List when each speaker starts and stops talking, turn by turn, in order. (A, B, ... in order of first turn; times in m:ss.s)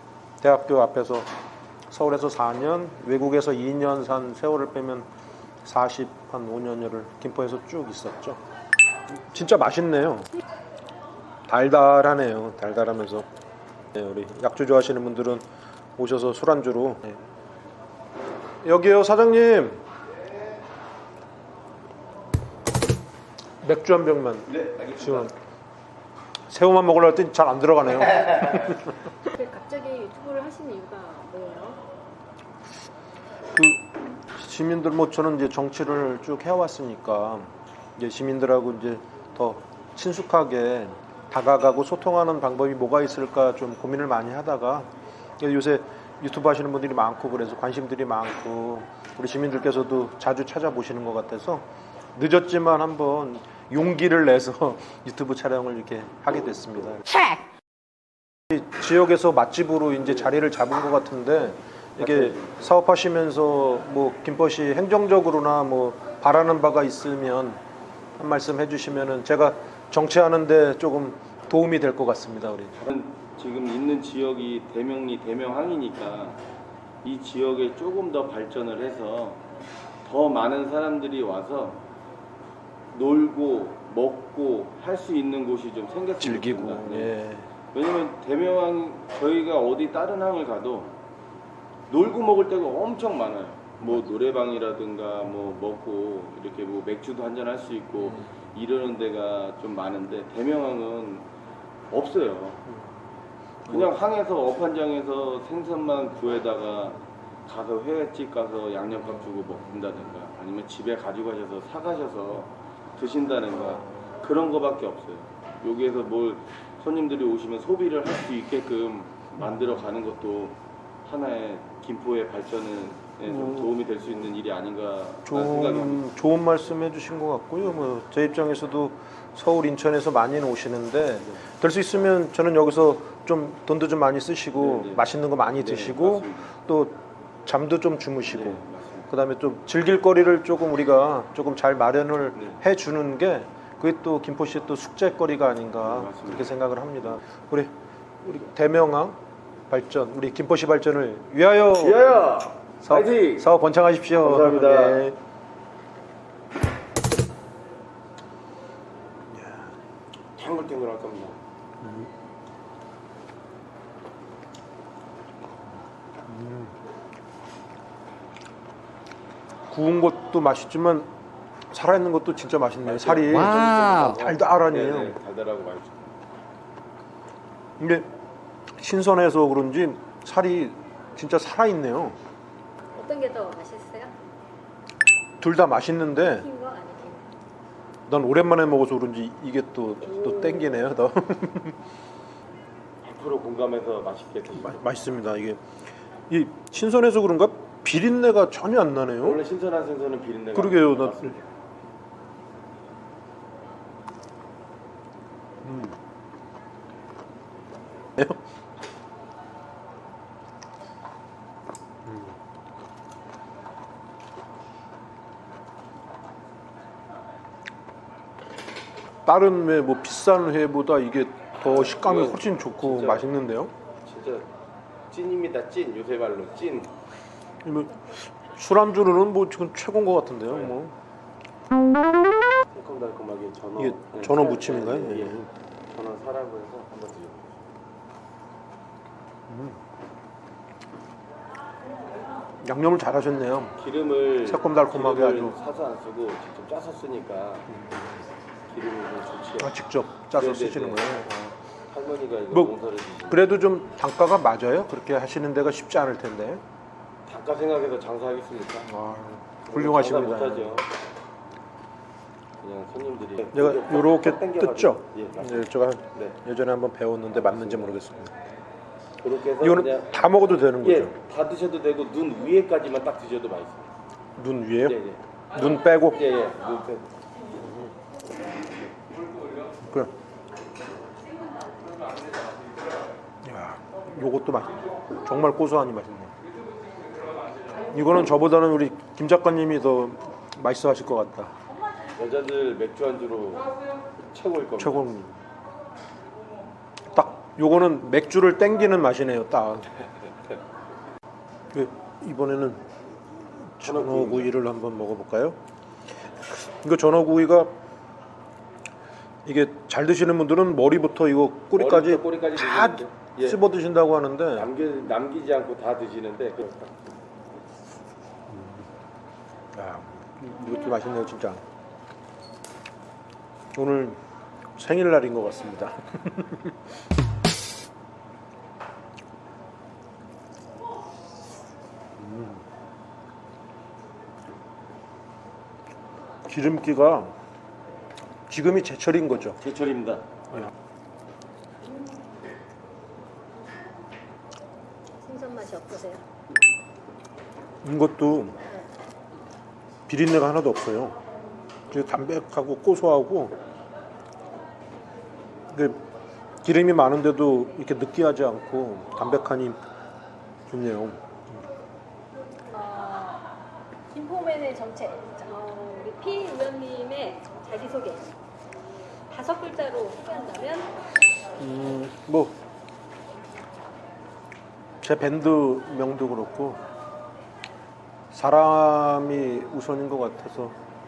0:00.4-0:01.3 A
0:01.9-0:05.1 A
0:05.6-0:08.4 A
0:09.2-0:10.3 A
0:11.5-0:13.3 A
0:13.9-0:15.4 A
0:16.0-0:17.2 A
0:18.6-0:19.8 A
0:23.6-0:25.3 A
0:24.5-0:25.3 B
0:26.5-0:29.0 A
0:29.3-0:31.8 C
0:33.5-0:57.4 A
0:58.5-1:07.6 A
1:02.0-1:02.6 B
1:08.2-1:12.8 A
1:12.8-1:16.4 B
1:17.0-1:19.4 B
1:20.0-1:21.8 B
1:22.9-1:27.1 B
1:26.2-1:27.5 A
1:27.7-1:31.0 B
1:31.9-1:41.3 B
1:41.9-1:42.6 B
1:43.7-1:43.9 A
1:43.7-2:06.0 B
1:48.9-1:49.9 A
1:53.5-1:54.1 A
1:59.4-1:59.8 A
2:03.2-2:03.7 A
2:05.2-2:27.7 A
2:14.5-2:16.5 B
2:18.3-2:19.1 B
2:22.3-2:22.6 B
2:25.8-2:26.5 B
2:28.2-2:29.2 A
2:29.7-2:35.2 A
2:31.8-2:33.5 B
2:34.1-2:35.0 B
2:39.3-2:39.7 A
2:40.4-2:41.4 B
2:41.8-2:42.1 A
2:46.3-2:46.7 A
2:49.7-2:51.1 A
2:51.7-2:55.2 A
2:52.8-2:56.1 B
2:57.8-2:58.1 A
2:58.8-3:02.2 A
3:02.9-3:04.1 C
3:05.4-3:06.5 A
3:06.2-3:07.4 C
3:08.1-3:11.8 A
3:10.0-3:10.9 C
3:13.0-3:14.8 B
3:14.6-3:15.6 A
3:16.3-3:19.4 A
3:19.2-3:21.5 B
3:20.5-3:21.4 A
3:25.6-3:25.9 A
3:39.2-3:43.7 A
3:41.6-3:43.3 B
3:44.0-3:44.5 B
3:45.1-3:46.9 B
3:47.6-3:50.9 A
3:50.5-3:50.7 B
3:52.7-3:57.6 B
3:53.8-3:55.4 A
3:59.5-3:59.8 A
4:02.6-4:03.7 A
4:03.8-4:07.7 B
4:04.4-4:05.6 A
4:07.7-4:08.2 A
4:08.7-4:09.7 B
4:09.6-4:11.6 A
4:10.3-4:11.3 B
4:11.9-4:13.4 B
4:13.3-4:16.6 A
4:17.2-4:18.9 B
4:18.9-4:20.8 A
4:19.6-4:20.9 B
4:22.6-4:26.4 B
4:23.5-4:28.3 A
4:27.3-4:28.0 B
4:29.2-4:30.1 B
4:29.6-4:31.2 A
4:30.8-4:33.8 B
4:34.4-4:35.0 A
4:34.8-4:35.2 B
4:35.5-4:36.2 A
4:36.1-4:37.1 B
4:37.6-4:37.9 A
4:39.8-4:40.1 A
4:43.4-4:46.3 A
4:47.9-4:51.5 A
4:52.2-4:53.7 B
4:54.3-4:55.1 B
4:54.8-4:55.4 A
4:57.1-4:59.9 A
5:01.7-5:02.8 A
5:03.8-5:05.6 A
5:03.8-5:04.5 B
5:06.6-5:07.7 A
5:09.4-5:14.7 A
5:11.7-5:13.6 B
5:14.6-5:17.1 B
5:18.5-5:18.8 A
5:19.7-5:21.6 A
5:23.7-5:24.2 A
5:24.8-5:26.7 A
5:32.2-5:32.6 A
5:36.5-5:37.3 A
5:38.5-5:39.6 A
5:39.6-5:40.2 B
5:45.2-5:46.2 C
5:47.8-5:48.6 A
5:50.1-5:51.2 A
5:51.9-5:53.5 A
5:55.7-5:56.0 A
5:56.6-5:59.8 A
6:00.7-6:01.2 A
6:02.7-6:03.5 C
6:04.1-6:08.3 C
6:09.3-6:10.9 C
6:11.6-6:12.6 A
6:15.0-6:16.8 A
6:18.3-6:20.7 A